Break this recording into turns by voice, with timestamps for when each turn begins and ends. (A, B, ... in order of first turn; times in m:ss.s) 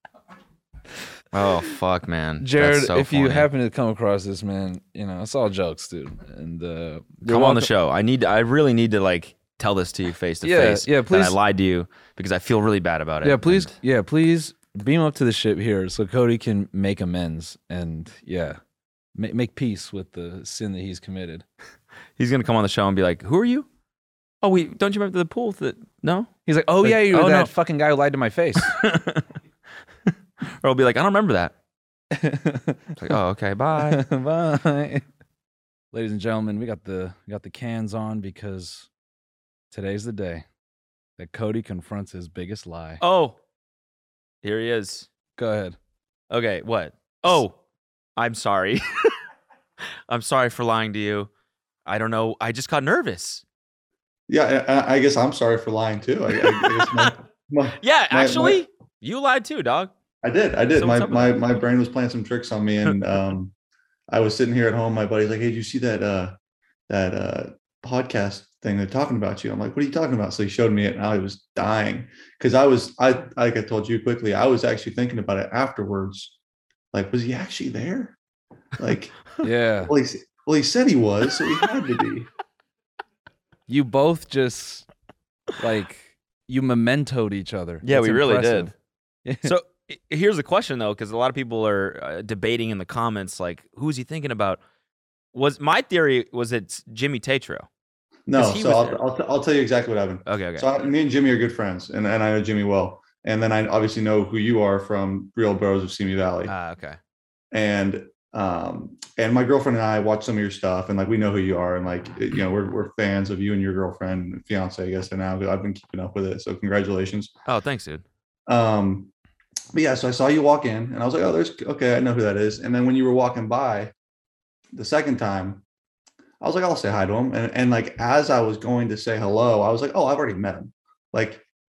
0:01.3-0:03.5 A
0:02.4-0:07.7 B
0:07.2-0:13.7 A
0:10.4-0:11.4 B
0:13.2-0:18.6 B
0:19.2-0:21.4 B
0:22.2-0:23.7 A
0:24.4-0:27.5 A
0:26.4-0:28.7 B
0:28.6-0:29.2 A
0:30.1-0:31.5 A
0:32.1-0:32.9 B
0:33.0-0:34.0 A
0:33.8-0:35.0 B
0:35.9-0:38.9 B
0:39.7-0:40.4 B
0:41.2-0:43.0 B
0:43.0-0:43.3 A
0:44.4-0:45.1 A
0:45.4-0:45.8 B
0:46.3-0:47.6 A
0:48.2-0:49.1 A
0:50.1-0:51.3 A
0:51.8-0:53.4 A
0:54.3-0:58.6 C
0:56.4-0:57.1 A
0:57.8-0:59.9 A
1:00.2-1:03.5 C
1:00.7-1:01.5 A
1:04.1-1:06.3 C
1:06.9-1:16.3 C
1:16.9-1:18.2 C
1:18.8-1:19.3 C
1:19.4-1:19.9 B
1:19.8-1:22.3 C
1:23.7-1:24.8 B
1:25.6-1:28.7 B
1:27.8-1:28.7 A
1:29.2-1:29.5 B
1:29.4-1:34.6 A
1:35.3-1:37.7 A
1:38.3-1:46.5 C
1:38.3-1:39.0 A
1:40.2-1:40.7 A
1:46.5-1:47.0 A
1:47.5-1:57.3 C
1:57.4-1:58.0 A
1:58.5-1:59.1 C
1:59.7-2:03.9 C
2:04.7-2:05.6 C
2:06.4-2:11.4 C